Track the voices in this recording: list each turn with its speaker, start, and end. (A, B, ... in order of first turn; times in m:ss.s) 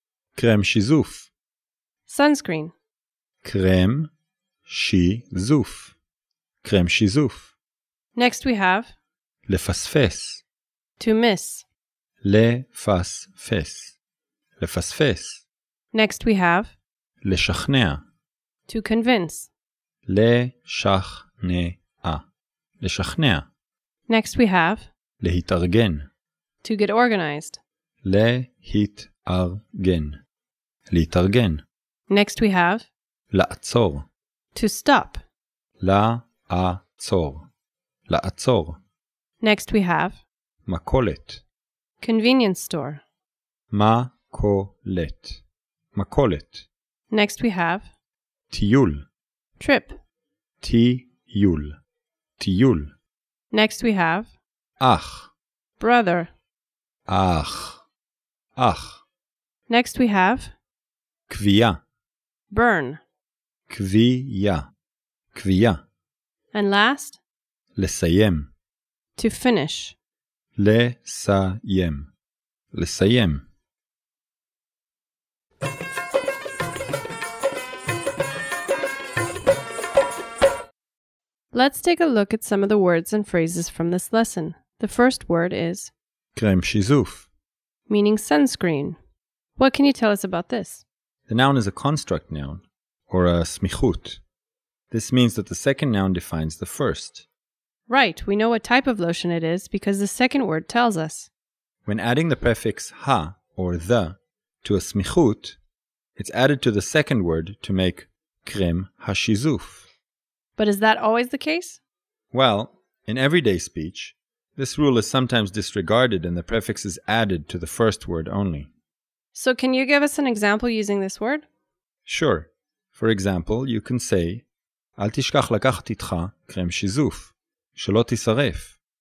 0:00.4-0:01.3 A
0:02.1-0:02.7 B
0:03.4-0:04.1 A
0:04.7-0:05.9 A
0:06.6-0:07.5 A
0:08.2-0:08.9 B
0:09.5-0:10.4 A
0:11.0-0:11.6 B
0:12.2-0:14.0 A
0:14.6-0:15.4 A
0:15.9-0:16.7 B
0:17.2-0:18.0 A
0:18.7-0:19.5 B
0:20.1-0:22.2 A
0:22.8-0:23.5 A
0:24.1-0:24.9 B
0:25.2-0:26.1 A
0:26.6-0:27.6 B
0:28.0-0:30.2 A
0:30.9-0:31.6 A
0:32.1-0:32.9 B
0:33.3-0:34.0 A
0:34.6-0:35.2 B
0:35.8-0:37.5 A
0:38.1-0:38.8 A
0:39.4-0:40.2 B
0:40.7-0:41.4 A
0:42.0-0:43.0 B
0:43.7-0:45.4 A
0:45.9-0:46.7 A
0:47.1-0:47.9 B
0:48.5-0:49.0 A
0:49.6-0:50.0 B
0:50.6-0:51.8 A
0:52.4-0:52.9 A
0:53.5-0:54.3 B
0:54.8-0:55.3 A
0:55.8-0:56.3 B
0:57.1-0:57.8 A
0:58.6-0:59.0 A
0:59.7-1:00.5 B
1:01.3-1:01.8 A
1:02.5-1:03.0 B
1:03.7-1:04.7 A
1:05.3-1:05.8 A
1:06.5-1:07.2 B
1:07.8-1:08.5 A
1:09.2-1:10.0 B
1:10.6-1:12.1 A
1:12.7-1:13.4 A
1:21.5-1:25.9 B
1:26.4-1:27.3 A
1:27.9-1:29.0 B
1:29.6-1:30.8 B
1:31.3-1:34.2 A
1:34.9-1:37.3 A
1:37.9-1:41.3 B
1:41.9-1:45.6 A
1:46.2-1:49.8 A
1:50.6-1:51.8 B
1:52.3-1:58.7 A
1:59.3-2:01.4 B
2:02.1-2:04.4 A
2:05.0-2:08.8 A